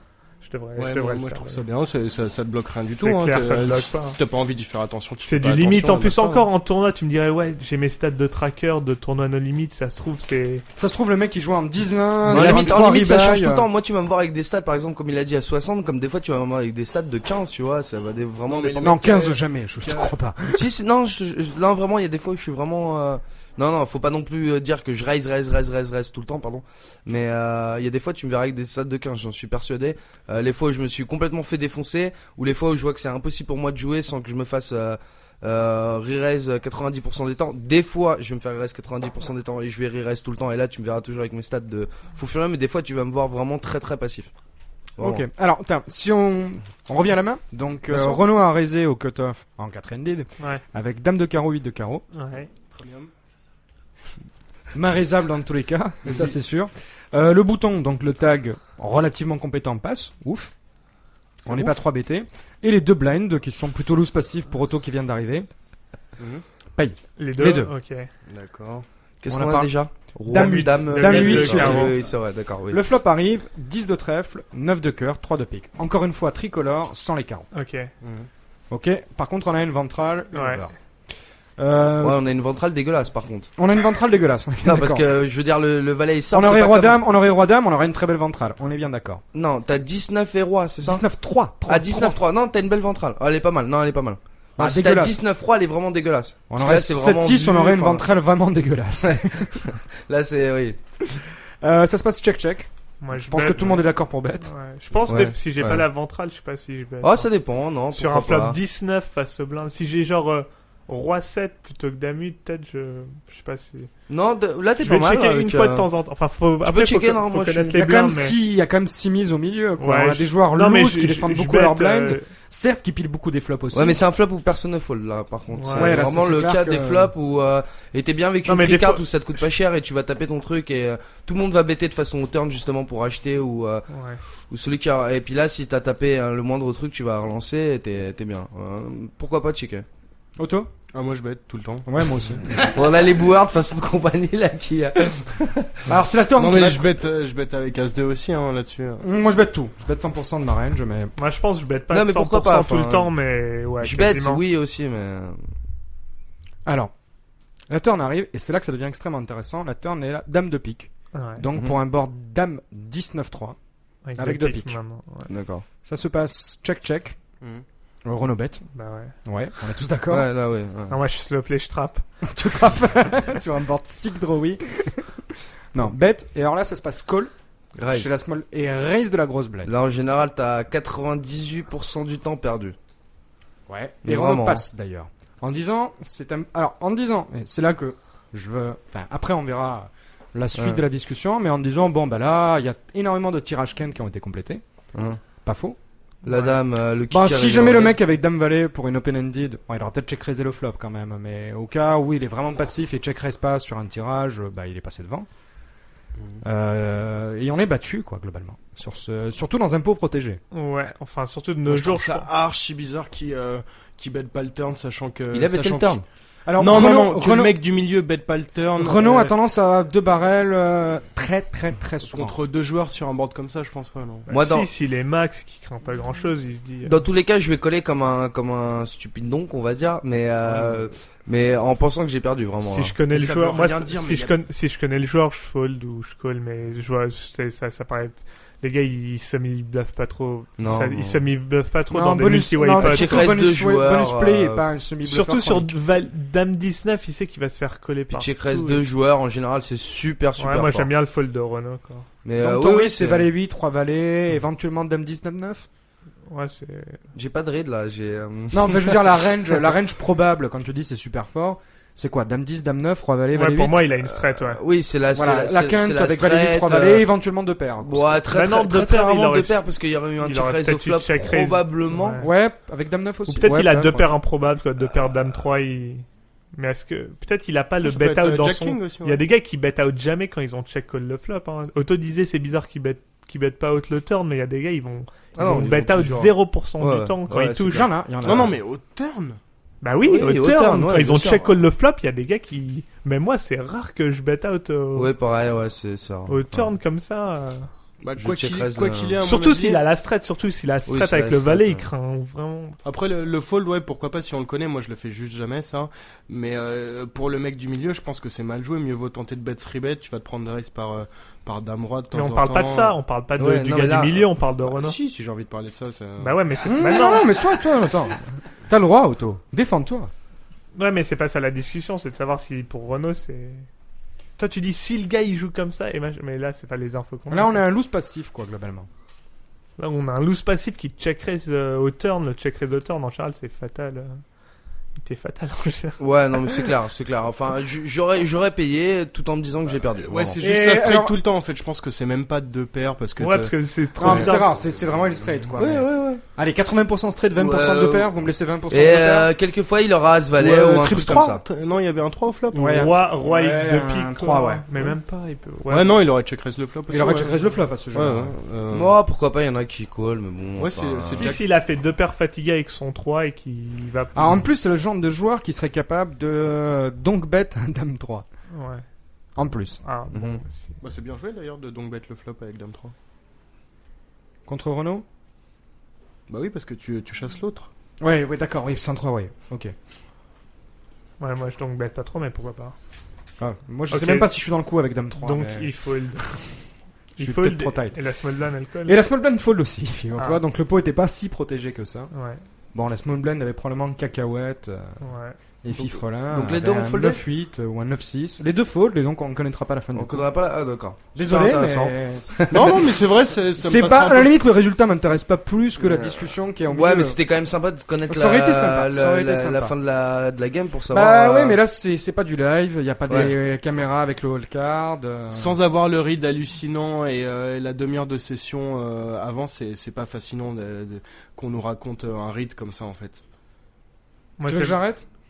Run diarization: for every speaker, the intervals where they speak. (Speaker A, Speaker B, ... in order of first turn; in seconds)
Speaker A: 0.4-1.6, 2.9-4.2, 5.2-10.7, 52.1-52.5, 67.2-68.1, 70.3-72.0, 77.5-77.9, 80.3-80.6, 103.0-107.3, 107.9-113.9, 114.8-118.4, 119.8-122.3, 125.5-126.0, 128.5-129.1, 133.9-134.2, 151.2-154.4, 161.1-161.4, 164.1-165.3, 168.7-169.2, 170.9-172.0, 196.2-196.6, 210.5-212.3, 224.3-227.0, 232.7-243.3, 245.0-248.8, 250.4-252.1, 256.3-257.0, 263.3-264.6, 268.3-269.6, 270.2-272.3, 273.3-287.9, 289.8-295.1, 296.3-297.7, 299.2-302.8, 312.1-315.0, 316.2-317.4, 320.8-323.7, 324.4-327.6, 329.8-334.2, 335.0-336.7, 343.2-344.6, 352.5-356.0, 361.1-364.4, 368.5-368.9, 369.8-370.8, 381.2-382.8, 383.9-384.3, 385.2-386.3, 387.2-389.0, 392.1-392.4, 395.0-395.4, 424.4-424.8
Speaker B: 0.8-6.5, 18.5-20.1, 52.7-53.1, 56.0-56.4, 61.5-61.7, 66.2-66.4, 68.3-68.9, 78.0-78.3, 140.9-141.9, 146.3-149.1, 211.7-216.0, 216.6-219.3, 222.0-224.3, 233.1-234.4, 277.8-279.2, 288.2-289.4, 298.0-299.8, 302.8-313.0, 314.6-316.5, 339.8-344.4, 347.3-348.1, 350.4-352.8, 355.6-357.4, 357.9-358.9, 360.6-361.5, 370.8-372.9, 376.3-377.7, 402.5-404.3, 415.3-423.2
Speaker C: 10.8-13.7, 18.8-20.7, 45.0-52.1, 54.7-60.5, 61.5-65.5, 66.8-67.7, 69.3-69.7, 70.3-72.0, 72.7-77.5, 78.7-80.7, 81.6-82.2, 83.6-85.0, 86.3-89.2, 90.8-92.2, 94.6-95.2, 96.5-99.6, 101.1-104.5, 117.7-124.0, 125.8-127.1, 140.4-140.7, 141.8-142.5, 145.9-146.9, 149.0-151.2, 156.7-156.9, 157.7-163.6, 164.2-164.8, 165.8-167.2, 168.0-168.6, 169.2-170.3, 172.2-175.2, 175.7-177.3, 177.9-179.7, 183.7-194.6, 195.4-195.8, 197.1-205.3, 206.4-210.4, 216.5-217.6, 218.8-222.4, 241.9-245.7, 252.4-255.7, 258.5-263.9, 265.1-268.1, 272.2-274.1, 287.6-288.6, 316.7-320.1, 327.3-328.9, 340.4-341.2, 344.0-349.3, 352.6-354.6, 356.9-358.4, 364.1-368.2, 369.4-369.8, 374.5-375.1, 378.0-379.7, 383.4-385.7, 387.2-388.0, 388.9-392.1, 392.7-395.0, 395.6-400.2, 401.1-402.8, 403.6-407.1, 408.1-409.7, 410.9-415.6, 424.5-425.1
Speaker D: 12.3-19.1, 20.5-44.3, 45.0-45.2, 47.9-48.2, 69.2-72.8, 82.0-83.5, 84.6-87.0, 89.3-91.1, 91.6-98.1, 99.1-100.8, 105.1-105.9, 107.0-108.6, 114.1-115.9, 116.6-117.7, 123.7-133.9, 134.5-139.8, 142.5-145.8, 151.9-153.1, 153.8-155.4, 165.3-165.6, 170.1-171.0, 177.8-178.1, 179.7-182.8, 184.1-184.7, 190.6-190.8, 194.9-195.2, 196.3-198.0, 215.3-216.0, 224.3-224.7, 226.8-232.9, 240.6-241.2, 242.8-244.7, 248.1-250.9, 252.2-253.3, 257.1-259.2, 264.1-267.1, 267.8-272.3, 285.4-287.9, 290.0-291.5, 294.9-296.7, 298.2-299.2, 300.9-301.9, 313.4-314.3, 336.0-340.4, 345.6-346.2, 348.7-351.4, 358.7-361.3, 370.1-370.4, 395.7-397.2, 399.9-402.9, 405.8-411.6, 413.1-413.3